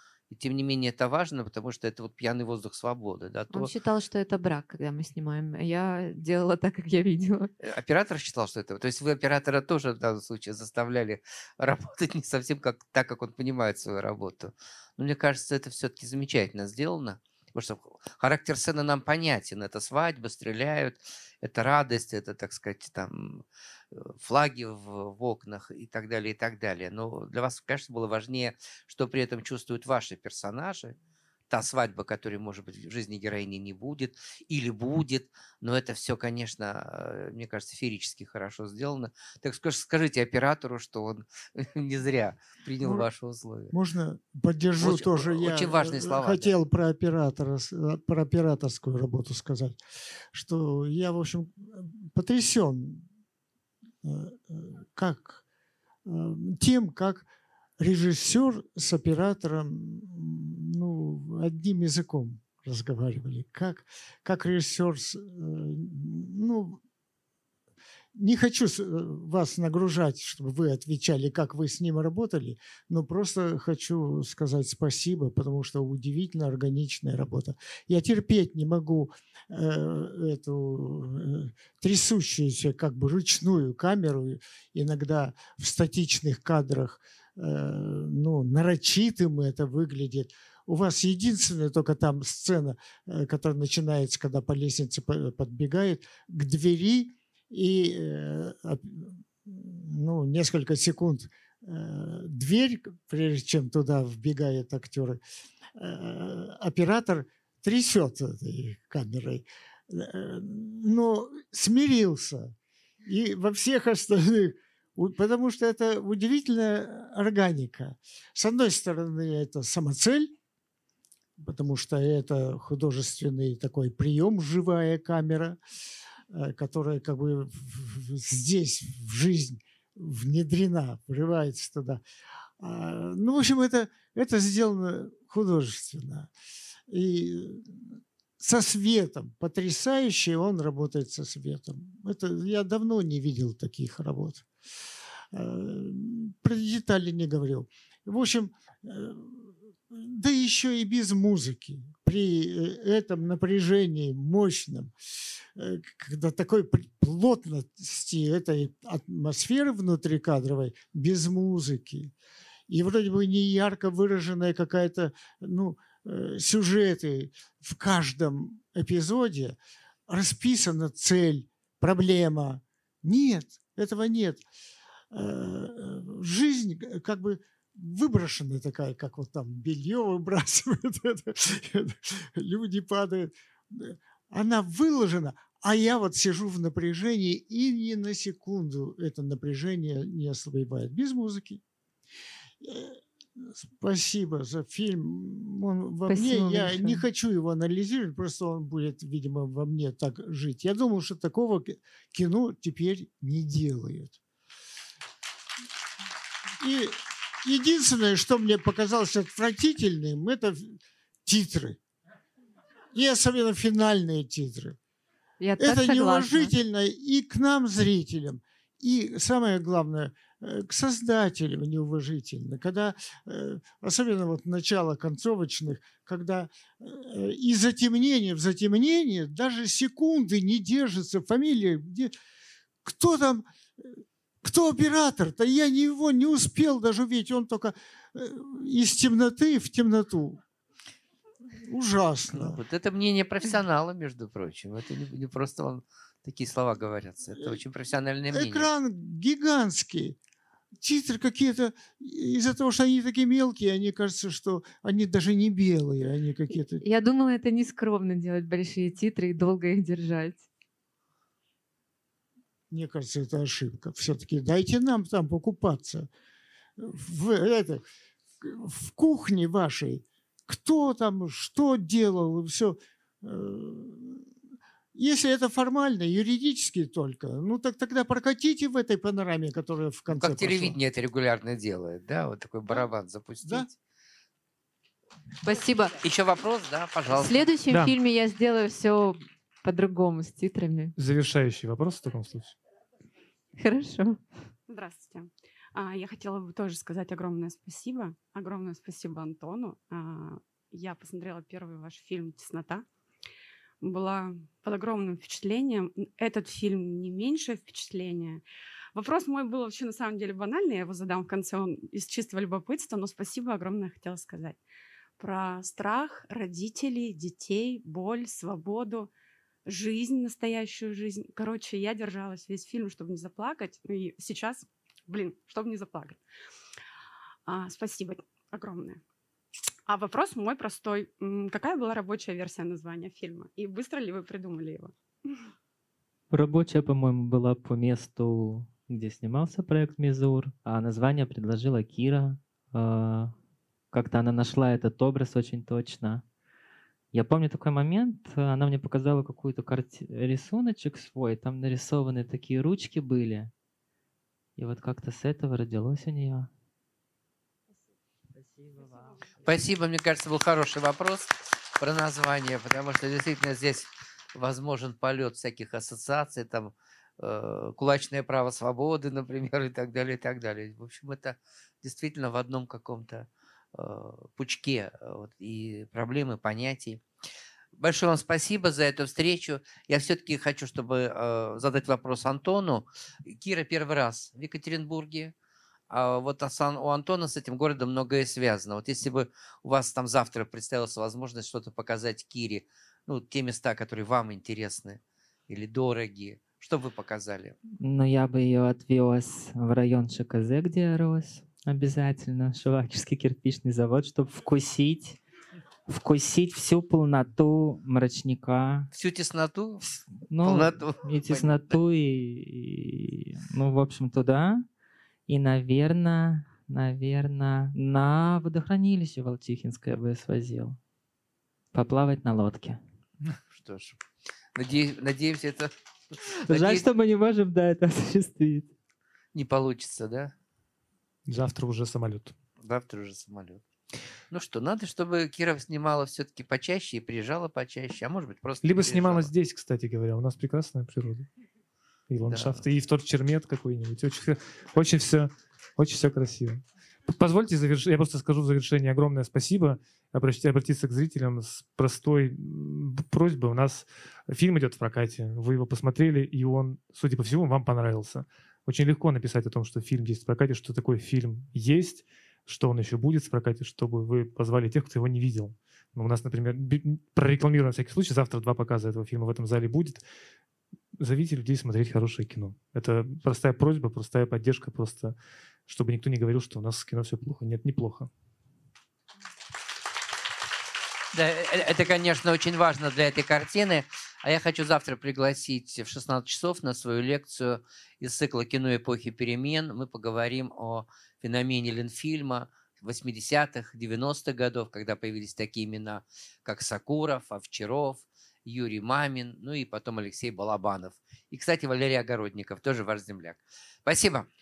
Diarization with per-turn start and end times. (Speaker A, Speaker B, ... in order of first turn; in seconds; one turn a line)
Speaker A: 0.3-3.7
Speaker B: 3.5-7.5
Speaker A: 7.6-30.9
Speaker A: 31.5-43.7
Speaker C: 42.8-43.1
Speaker C: 43.7-49.8
Speaker A: 44.8-46.5
Speaker C: 50.3-53.0
Speaker C: 54.0-55.4
Speaker C: 56.0-57.3
Speaker C: 57.8-66.8
Speaker C: 68.2-105.2
Speaker C: 105.8-120.3
Speaker C: 121.4-125.6
Speaker C: 126.3-132.0
Speaker C: 132.6-136.3
Speaker C: 136.9-137.8
Speaker C: 138.4-144.4
Speaker C: 145.3-154.9
Speaker C: 155.6-162.1
Speaker C: 162.7-174.4
Speaker C: 175.1-191.6
Speaker C: 192.6-204.2
Speaker B: 196.1-197.0
Speaker C: 206.6-211.8
Speaker C: 212.9-214.8
Speaker B: 215.4-216.5
Speaker C: 215.6-232.1
Speaker C: 232.8-240.4
Speaker C: 241.6-242.6
Speaker A: 242.3-248.7
Speaker C: 248.3-250.2
Speaker C: 250.8-256.8
Speaker B: 256.8-260.4
Speaker C: 262.7-266.1
Speaker C: 266.8-267.8
Speaker C: 268.4-274.3
Speaker C: 274.9-280.8
Speaker A: 280.1-283.8
Speaker C: 283.4-283.7
Speaker B: 285.4-286.0
Speaker A: 286.0-287.5
Speaker B: 287.1-290.9
Speaker D: 291.0-292.6
Speaker B: 293.6-294.2
Speaker E: 294.7-302.9
Speaker E: 303.8-308.4
Speaker E: 308.9-314.6
Speaker E: 315.2-319.1
Speaker E: 319.6-326.2
Speaker E: 327.4-329.0
Speaker E: 329.9-334.9
Speaker F: 336.3-343.3
Speaker F: 343.9-346.2
Speaker F: 347.1-353.5
Speaker F: 354.6-356.5
Speaker A: 359.4-377.0
Speaker A: 377.8-385.3
Speaker A: 385.9-397.6
Speaker F: 397.8-405.2
Speaker F: 405.9-408.9
Speaker A: 408.9-409.9
Speaker F: 410.3-414.7
Speaker A: 410.4-411.8
Speaker F: 415.3-420.8
Speaker F: 421.7-422.8
Speaker A: 423.5-424.0
Speaker A: 424.6-425.7
Speaker F: 426.3-428.7
Speaker A: 426.5-426.9
Speaker A: 429.3-430.3
Speaker D: 431.3-432.3
Speaker A: 432.6-433.6
Speaker A: 434.3-439.3
Speaker D: 438.6-441.3
Speaker D: 442.1-470.0
Speaker A: 442.3-442.6
Speaker D: 471.0-478.1
Speaker A: 481.1-504.3